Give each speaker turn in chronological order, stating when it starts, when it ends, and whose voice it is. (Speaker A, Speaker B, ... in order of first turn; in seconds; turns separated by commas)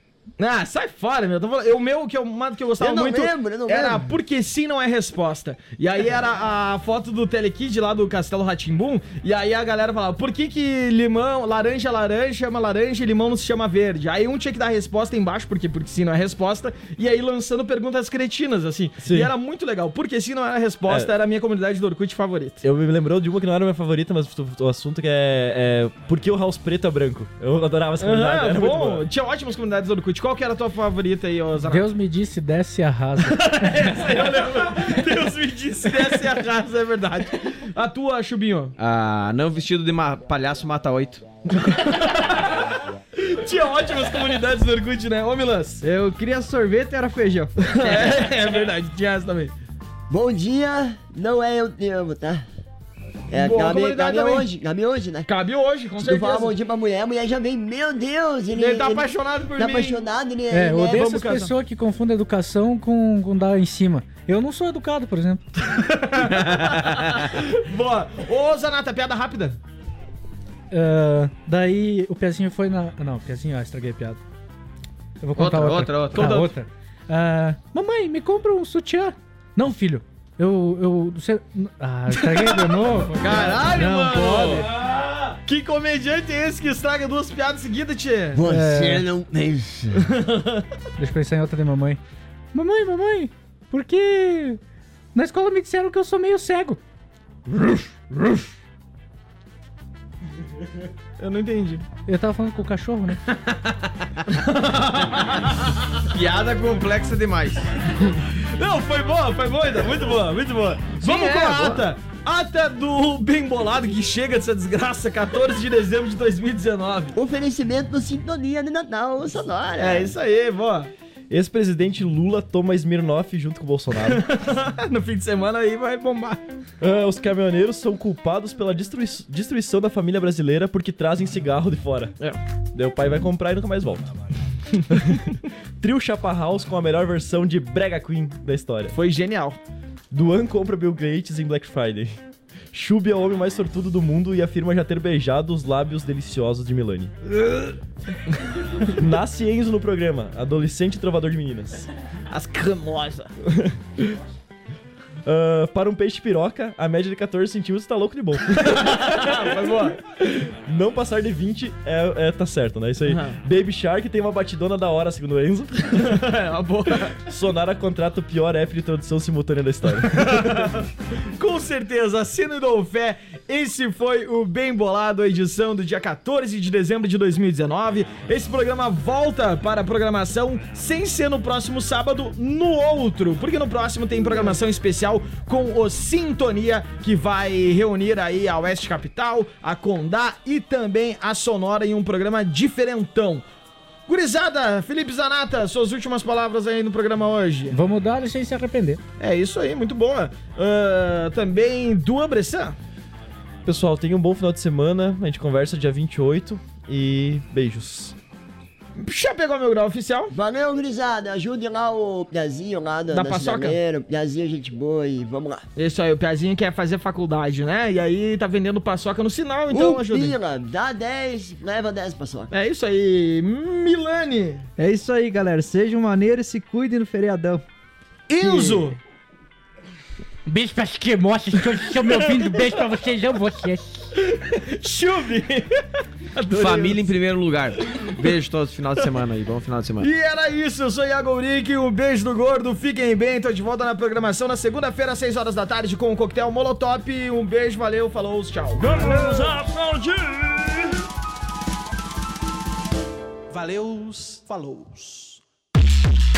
Speaker A: 0.4-22.6, Speaker B: 2.8-4.1, Speaker C: 19.0-19.3, Speaker C: 22.6-29.0, Speaker A: 28.0-31.9, Speaker D: 31.6-34.1, Speaker A: 33.2-38.7, Speaker E: 38.8-41.2, Speaker A: 41.5-45.8, Speaker F: 45.8-47.5, Speaker A: 47.6-49.5, Speaker E: 47.8-48.4, Speaker B: 50.1-52.4, Speaker B: 53.3-55.3, Speaker A: 53.3-54.5, Speaker A: 55.3-56.5, Speaker B: 56.0-61.2, Speaker A: 58.5-60.0, Speaker D: 60.5-65.4, Speaker A: 60.9-61.5, Speaker A: 65.6-69.6, Speaker E: 66.4-67.1, Speaker D: 70.7-74.2, Speaker D: 75.2-84.4, Speaker E: 75.4-76.4, Speaker A: 76.1-76.5, Speaker A: 82.2-82.5, Speaker A: 83.2-84.8, Speaker E: 83.2-84.7, Speaker C: 85.0-85.3, Speaker A: 85.4-88.4, Speaker B: 88.3-90.1, Speaker D: 88.4-89.0, Speaker A: 90.0-90.6, Speaker D: 91.0-92.0, Speaker D: 92.5-94.6, Speaker D: 95.1-96.8, Speaker D: 97.5-98.5, Speaker A: 101.2-101.8, Speaker D: 102.0-103.2, Speaker A: 104.3-105.5, Speaker E: 106.1-107.7, Speaker A: 108.3-117.2, Speaker E: 111.0-111.8, Speaker B: 117.1-120.1, Speaker A: 119.8-120.9, Speaker C: 121.3-124.2, Speaker A: 124.0-126.4, Speaker C: 126.8-132.1, Speaker C: 132.7-134.1, Speaker C: 134.9-135.3, Speaker C: 135.8-138.9, Speaker A: 138.9-139.6, Speaker C: 140.1-142.2, Speaker C: 142.7-147.1, Speaker C: 148.9-151.9, Speaker A: 152.3-153.3, Speaker C: 153.5-154.2, Speaker C: 155.2-159.5, Speaker A: 158.7-160.0, Speaker C: 160.0-166.2, Speaker A: 163.0-163.4, Speaker A: 165.9-167.2, Speaker C: 167.2-170.6, Speaker A: 170.2-170.9, Speaker A: 171.4-193.4, Speaker A: 194.1-197.7, Speaker D: 197.7-199.0, Speaker A: 199.2-202.8, Speaker C: 203.6-208.1, Speaker A: 209.0-210.3, Speaker B: 210.3-215.6, Speaker A: 213.1-213.8, Speaker A: 215.8-220.3, Speaker B: 219.7-222.5, Speaker A: 222.5-224.7, Speaker F: 224.8-227.6, Speaker A: 228.3-229.0, Speaker F: 228.4-228.8, Speaker D: 230.5-234.1, Speaker A: 234.2-235.8, Speaker A: 236.3-237.1, Speaker E: 236.5-240.1, Speaker A: 240.0-249.3, Speaker C: 249.0-249.4, Speaker E: 249.3-249.8, Speaker A: 253.5-255.4